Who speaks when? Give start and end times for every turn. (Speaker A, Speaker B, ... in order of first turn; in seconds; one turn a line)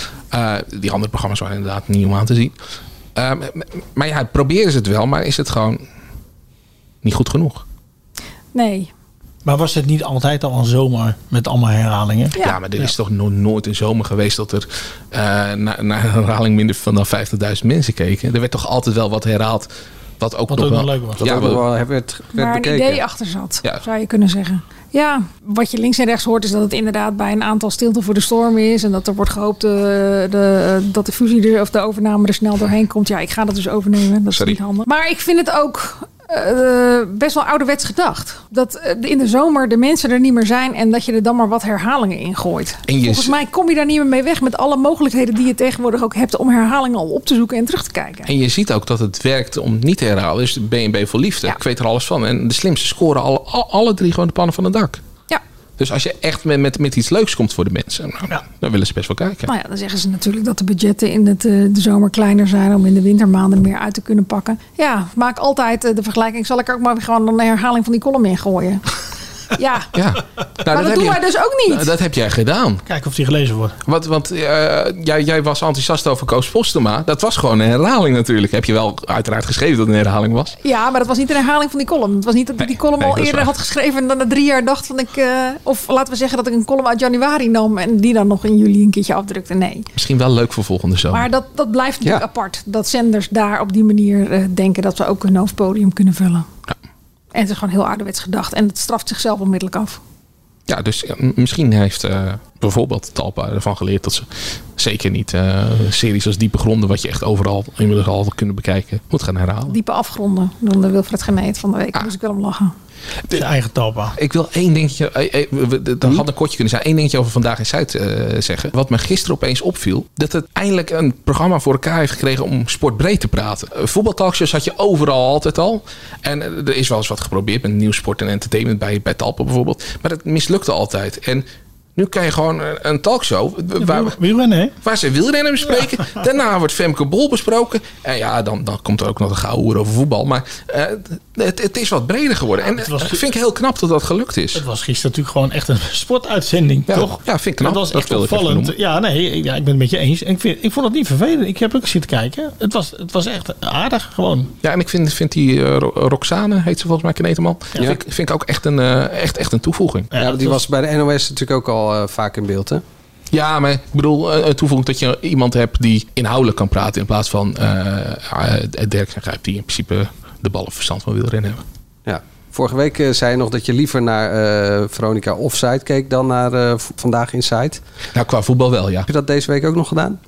Speaker A: 0.3-2.5
Speaker A: 3.1-5.8
Speaker A: 7.0-7.6
Speaker B: 8.5-8.9
Speaker C: 9.4-12.9
Speaker A: 12.4-19.7
Speaker A: 20.2-21.6
Speaker C: 20.5-21.4
Speaker D: 21.2-23.0
Speaker B: 22.3-48.3
Speaker A: 42.9-43.3
Speaker A: 48.3-55.0
Speaker A: 55.8-59.5
Speaker B: 59.5-68.8
Speaker B: 69.5-69.9
Speaker A: 69.9-72.8
Speaker B: 70.7-71.9
Speaker C: 72.8-73.8
Speaker A: 73.8-80.5
Speaker B: 80.6-89.9
Speaker A: 82.6-83.5
Speaker A: 89.9-91.3
Speaker B: 91.1-96.5
Speaker B: 97.3-100.0
Speaker A: 100.7-109.8
Speaker B: 109.7-112.7
Speaker C: 113.3-114.2
Speaker A: 114.1-134.2
Speaker C: 133.8-134.7
Speaker A: 134.8-144.6
Speaker C: 142.6-143.2
Speaker C: 144.5-154.5
Speaker A: 146.9-148.7
Speaker A: 154.6-160.1
Speaker C: 160.1-160.6
Speaker D: 160.2-162.8
Speaker A: 163.3-171.6
Speaker D: 172.1-177.8
Speaker A: 178.1-179.1
Speaker D: 179.1-180.2